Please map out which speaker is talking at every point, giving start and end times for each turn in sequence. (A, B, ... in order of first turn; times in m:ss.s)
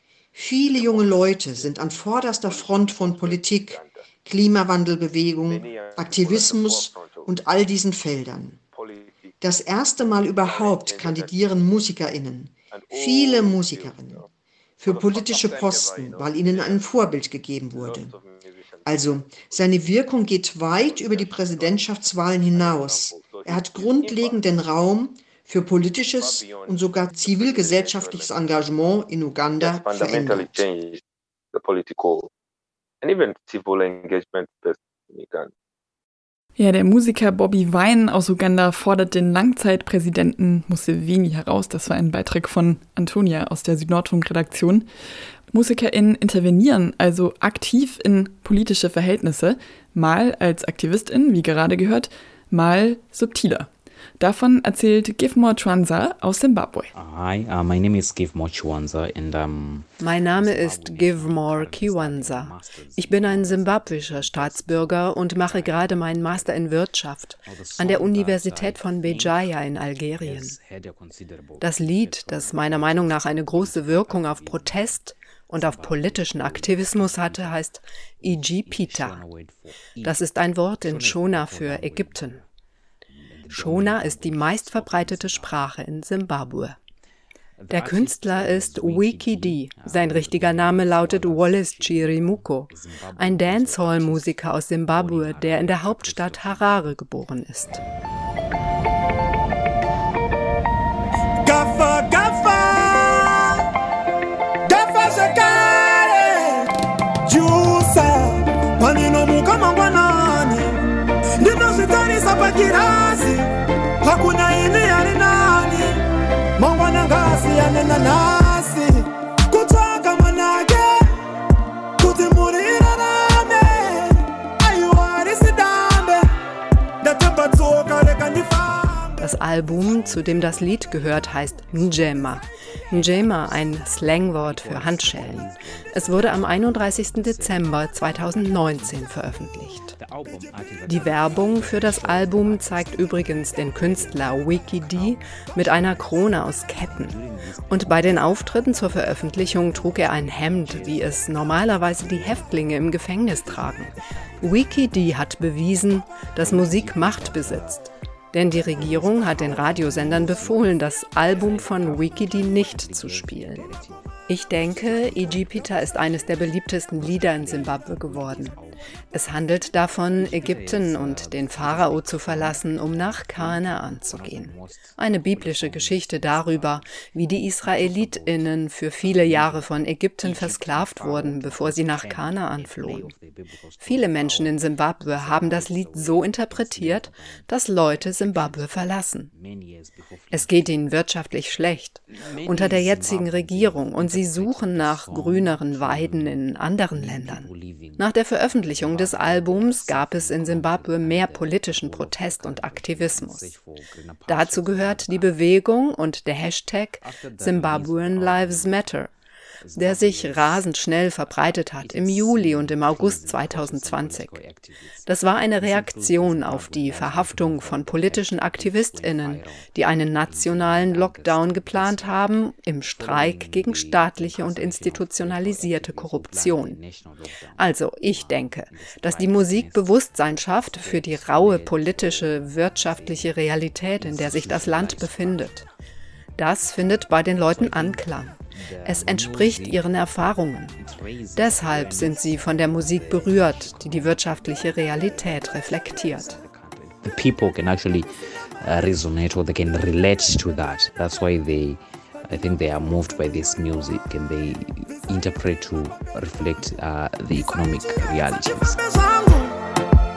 0:00.4-0:08.6 A
0:00.7-0:01.7 B
0:02.4-0:04.0 B
0:05.4-0:07.3 B
0:08.8-0:09.3 B
0:09.4-0:14.2 A
0:10.4-0:11.8 B
0:12.7-0:14.2 B
0:14.8-0:18.1 A
0:14.8-0:16.9 B
0:17.8-0:19.6 B
0:18.8-0:30.6 A
0:20.8-0:21.8 B
0:22.5-0:24.4 B
0:26.1-0:28.3 B
0:29.6-0:31.0 B
0:31.5-0:32.3 B
0:33.0-0:35.5 B
0:36.6-0:44.9 C
0:45.5-0:56.9 C
0:57.0-0:59.8 D
1:00.0-1:10.6 E
1:11.6-1:19.2 E
1:20.0-1:22.4 E
1:23.5-1:26.8 E
1:27.7-1:37.8 E
1:41.4-1:43.6 F
1:44.7-1:46.7 F
1:47.2-1:50.8 F
1:51.4-1:53.5 F
1:54.0-1:56.0 F
1:56.6-2:01.1 F
2:02.0-2:06.3 F
2:07.0-2:09.2 F
2:09.2-2:19.9 E
2:20.9-2:43.7 E
2:44.3-2:48.6 E
2:49.1-3:03.2 E
3:03.8-3:09.3 E
3:10.3-3:23.5 E
3:24.3-3:29.1 E
3:29.8-3:34.4 E
3:35.1-3:46.8 E
3:47.6-3:55.7 E
3:56.4-4:00.8 E
4:01.4-4:06.4 E
4:07.0-4:08.1 D
4:08.6-4:18.8 D
4:18.5-4:19.6 F